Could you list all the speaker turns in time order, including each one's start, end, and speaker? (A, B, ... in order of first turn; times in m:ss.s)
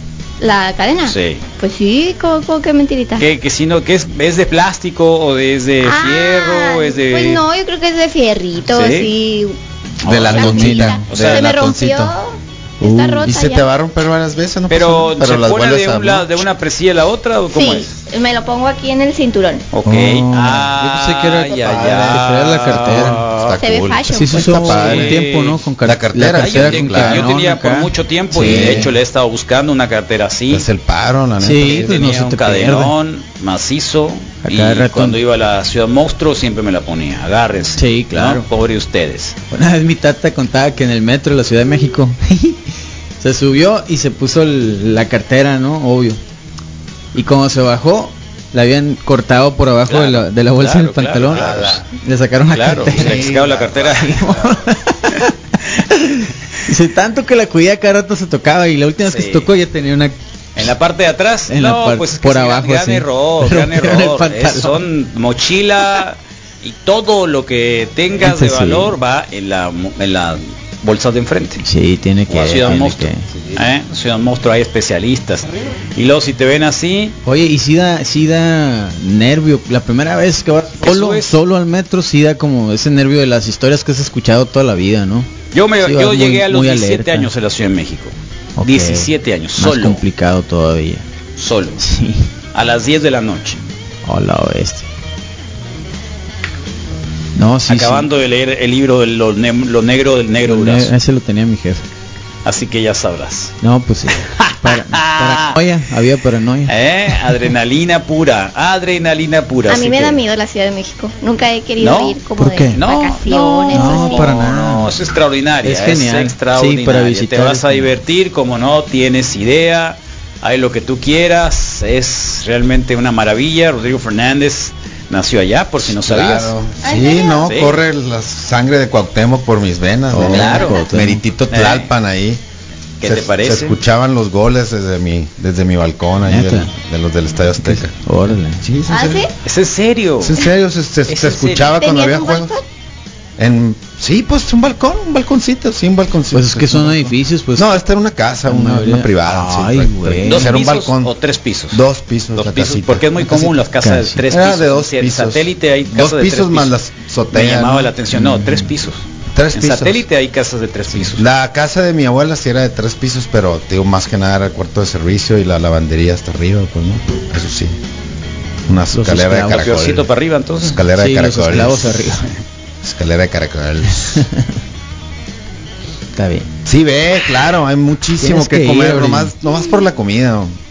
0:00.4-0:03.3 A
0:01.1-0:01.4 B
0:03.2-0:07.4 B
0:05.8-0:09.6 A
0:08.7-0:09.1 B
0:10.0-0:12.1 C
0:10.0-0:11.5 B
0:10.3-0:13.7 A
0:10.3-0:11.1 D
0:12.8-0:13.4 D
0:13.2-0:16.4 C
0:14.7-0:17.9 B
0:17.5-0:19.6 A
0:19.7-0:23.6 B
0:19.8-0:23.2 D
0:21.6-0:25.2 C
0:23.6-0:24.7 A
0:24.1-0:28.9 D
0:24.3-0:25.6 B
0:25.8-0:27.3 C
0:26.3-0:30.7 B
0:28.3-0:28.9 C
0:30.5-0:32.0 C
0:31.4-0:33.0 D
0:31.6-0:39.4 B
0:34.4-0:35.2 D
0:37.8-0:38.4 D
0:39.5-0:42.7 D
0:43.2-0:46.2 D
0:47.1-0:53.3 D
0:49.9-0:51.8 B
0:51.3-0:51.8 C
0:52.5-0:54.3 B
0:52.9-0:54.6 C
0:53.9-0:55.3 D
0:55.9-1:00.6 D
0:59.1-0:59.5 B
1:00.6-1:11.6 B
1:01.5-1:04.8 D
1:08.2-1:09.0 D
1:11.6-1:13.3 D
1:12.3-1:17.2 B
1:17.2-1:25.3 D
1:20.8-1:21.4 B
1:25.5-1:30.0 B
1:25.8-1:27.3 D
1:28.6-1:31.0 D
1:31.4-1:31.8 B
1:31.8-1:32.3 D
1:32.5-1:33.6 B
1:34.0-1:34.9 D
1:37.4-1:38.1 D
1:37.7-1:40.9 B
1:40.4-1:41.8 D
1:42.4-1:43.5 B
1:43.6-1:47.5 D
1:44.2-1:45.6 B
1:46.7-1:50.2 B
1:49.7-1:54.3 A
1:51.8-1:52.2 B
1:52.4-1:52.8 D
1:52.7-2:06.5 B
1:53.7-1:55.0 D
1:55.6-1:57.9 D
2:05.9-2:12.4 C
2:06.8-2:07.6 A
2:07.4-2:07.8 B
2:10.1-2:11.2 D
2:10.2-2:10.8 B
2:10.4-2:10.9 A
2:11.5-2:11.9 B
2:13.0-2:13.8 B
2:13.0-2:18.0 C
2:16.3-2:16.7 D
2:17.6-2:18.6 D
2:18.6-2:19.2 C
2:18.9-2:19.3 A
2:19.4-2:20.4 B
2:20.2-2:22.6 C
2:21.1-2:21.8 B
2:21.8-2:22.6 A
2:23.4-2:31.1 C
2:26.3-2:27.8 D
2:28.5-2:30.6 D
2:30.2-2:31.8 B
2:31.7-2:33.4 C
2:32.4-2:36.8 B
2:33.8-2:34.3 D
2:34.3-2:37.9 C
2:37.3-2:41.2 B
2:38.1-2:38.7 D
2:39.3-2:40.0 C
2:41.1-2:47.8 C
2:48.7-2:50.1 C
2:48.9-2:49.7 D
2:49.5-2:50.8 B
2:50.6-2:52.0 C
2:50.9-2:52.3 D
2:52.8-2:54.2 C
2:54.1-2:54.5 D
2:56.1-2:56.5 D
2:56.7-3:00.5 C
2:58.2-2:59.4 D
2:59.5-2:59.8 A